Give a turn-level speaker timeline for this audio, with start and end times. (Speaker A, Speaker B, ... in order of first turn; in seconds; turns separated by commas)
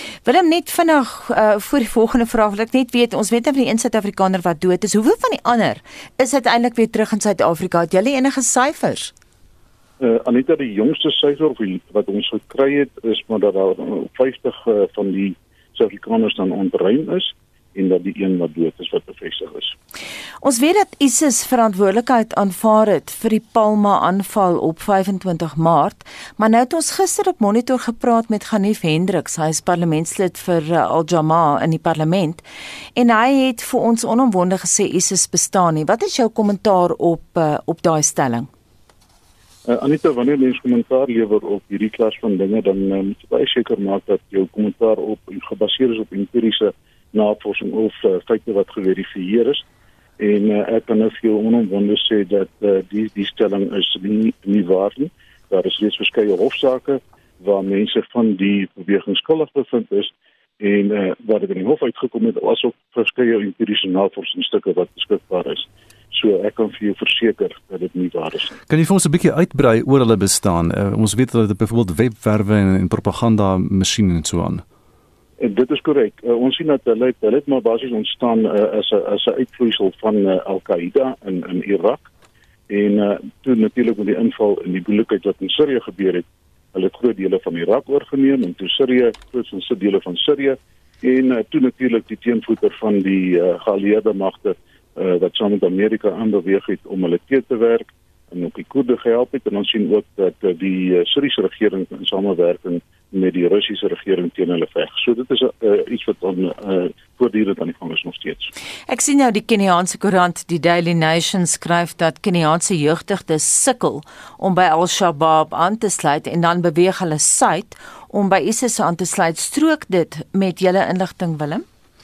Speaker A: 0.2-9.1, Speaker B: 10.0-19.7, Speaker A: 20.4-32.4, Speaker A: 33.0-38.5, Speaker B: 39.7-49.6, Speaker B: 50.2-68.5, Speaker C: 68.7-74.6, Speaker B: 75.4-82.1, Speaker B: 82.7-108.5, Speaker A: 108.9-121.6